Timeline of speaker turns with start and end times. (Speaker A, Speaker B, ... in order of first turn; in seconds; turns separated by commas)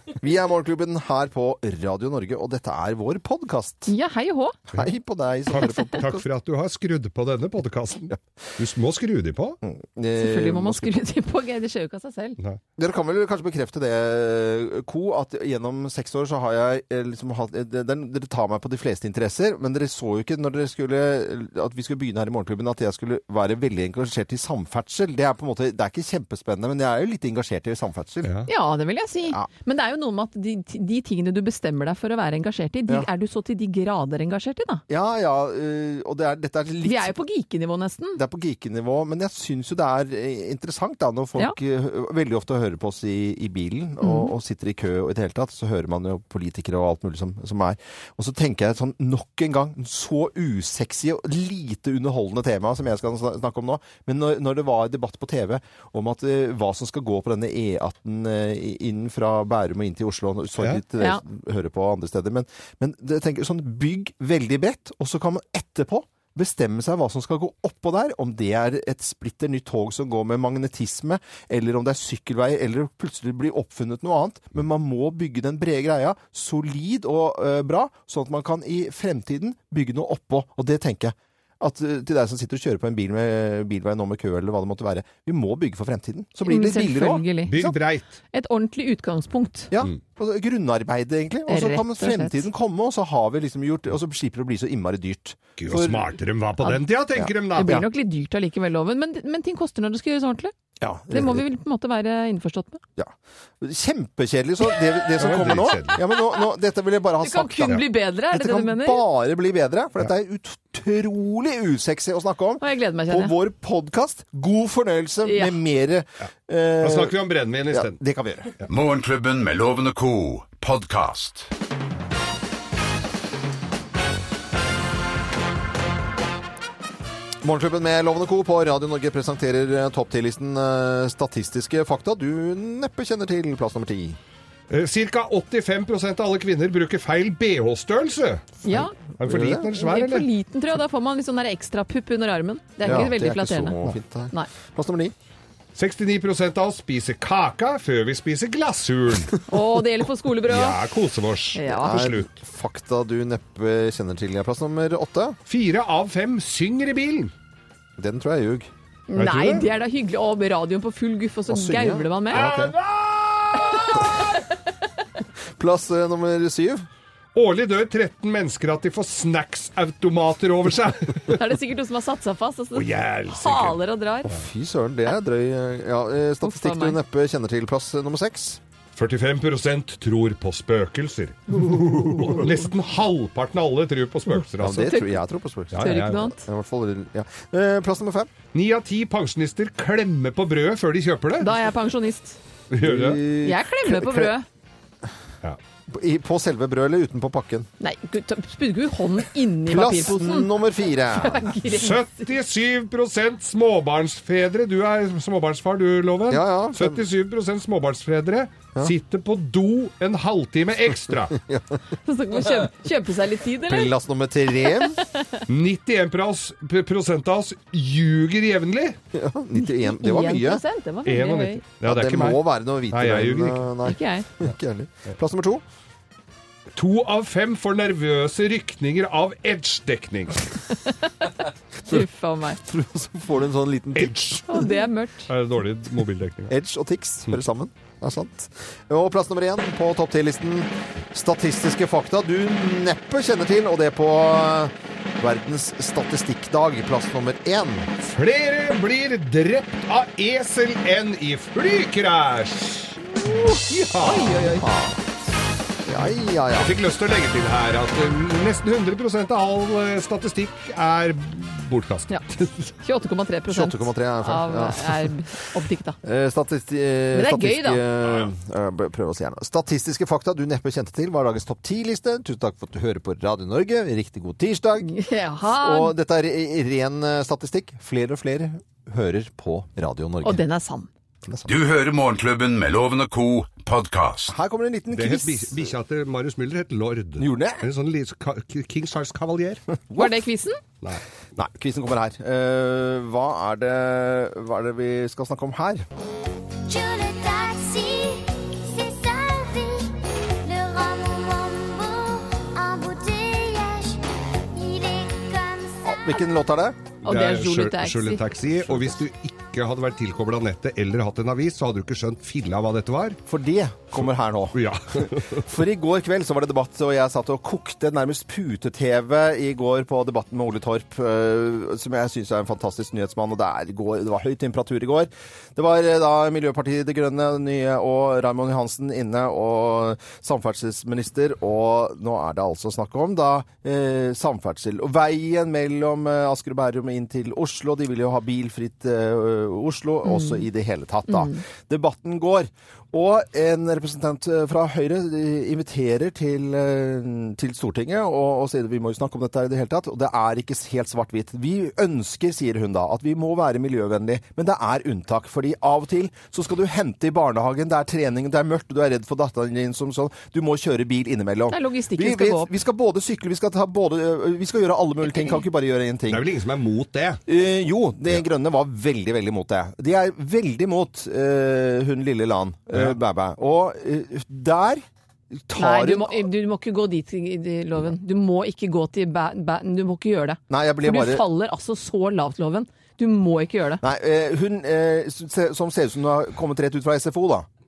Speaker A: 0.1-3.9, Speaker B: 3.9-4.5, Speaker A: 4.7-6.2, Speaker B: 5.5-5.9, Speaker C: 5.9-9.6, Speaker A: 9.6-11.0, Speaker B: 10.2-12.4, Speaker A: 12.8-28.3, Speaker C: 28.2-28.5, Speaker B: 28.5-34.8, Speaker A: 34.9-37.1, Speaker B: 36.8-38.2, Speaker A: 38.1-87.2, Speaker B: 44.0-44.3, Speaker B: 86.4-87.7, Speaker C: 87.5-88.2, Speaker B: 88.3-89.7, Speaker A: 89.7-96.1, Speaker B: 91.5-92.5, Speaker C: 95.6-97.8, Speaker A: 97.2-97.8, Speaker B: 97.5-100.5, Speaker A: 100.8-101.4, Speaker B: 101.1-102.8, Speaker A: 103.0-117.2, Speaker C: 105.2-106.0, Speaker B: 107.2-109.0, Speaker B: 112.6-113.3, Speaker B: 115.2-115.5, Speaker C: 116.8-118.0, Speaker A: 117.7-118.5, Speaker D: 118.7-121.5, Speaker A: 127.4-134.2, Speaker C: 134.7-138.6, Speaker B: 138.6-138.9, Speaker A: 138.7-139.7, Speaker C: 139.2-140.2, Speaker B: 139.8-144.5, Speaker A: 142.8-145.1, Speaker C: 145.7-149.3, Speaker B: 149.5-150.8, Speaker C: 150.5-152.3, Speaker B: 151.5-152.1, Speaker A: 151.7-155.4, Speaker C: 155.5-157.3, Speaker A: 158.0-158.7, Speaker B: 159.1-162.5, Speaker C: 159.2-159.7, Speaker A: 161.5-162.7, Speaker C: 162.3-164.1, Speaker B: 163.6-164.3, Speaker A: 165.6-166.8, Speaker C: 167.3-171.4, Speaker B: 171.3-174.3, Speaker C: 172.7-173.8, Speaker A: 174.3-178.6, Speaker B: 176.4-177.0, Speaker C: 178.9-184.9, Speaker A: 181.8-182.4, Speaker A: 184.6-188.3, Speaker B: 184.8-185.2, Speaker C: 185.7-186.2, Speaker B: 185.8-186.4, Speaker C: 188.5-191.5, Speaker B: 191.4-192.4, Speaker C: 192.7-193.2, Speaker A: 192.8-194.3, Speaker B: 193.4-194.4, Speaker A: 195.9-197.7, Speaker B: 197.8-200.5, Speaker A: 199.7-201.5, Speaker B: 201.1-202.2, Speaker C: 201.6-211.4, Speaker A: 206.3-207.0, Speaker A: 211.3-211.7, Speaker B: 212.0-213.9, Speaker A: 213.6-215.0, Speaker B: 214.6-215.4, Speaker C: 215.5-219.0, Speaker A: 219.1-220.6, Speaker B: 219.6-221.6, Speaker C: 221.1-223.7, Speaker A: 221.8-225.6, Speaker B: 223.8-224.3, Speaker C: 226.7-230.4, Speaker B: 230.8-232.6, Speaker A: 232.6-234.6, Speaker C: 233.9-234.6, Speaker B: 234.5-235.3, Speaker C: 235.3-236.5, Speaker A: 236.5-247.9, Speaker C: 248.0-254.4, Speaker B: 254.0-254.7, Speaker A: 254.5-255.2, Speaker A: 255.8-256.7, Speaker C: 256.5-262.7, Speaker B: 262.8-266.0, Speaker A: 263.5-265.1, Speaker A: 266.0-280.4, Speaker B: 267.1-267.8, Speaker B: 274.8-275.9, Speaker B: 280.2-280.9, Speaker A: 281.2-281.5, Speaker D: 281.5-284.3, Speaker A: 284.3-285.7, Speaker C: 284.9-289.6, Speaker A: 287.2-287.6, Speaker A: 289.9-290.2, Speaker B: 290.0-290.6, Speaker A: 291.4-295.8, Speaker E: 296.7-306.3, Speaker A: 305.8-306.8, Speaker C: 307.0-313.2, Speaker B: 307.0-308.2, Speaker A: 308.7-308.9, Speaker A: 313.3-366.3, Speaker C: 314.5-315.4, Speaker B: 340.0-340.4, Speaker B: 341.1-341.4, Speaker B: 361.5-362.5, Speaker C: 366.1-367.2, Speaker A: 367.3-376.3, Speaker B: 375.6-383.8, Speaker A: 380.5-381.2, Speaker A: 383.8-387.5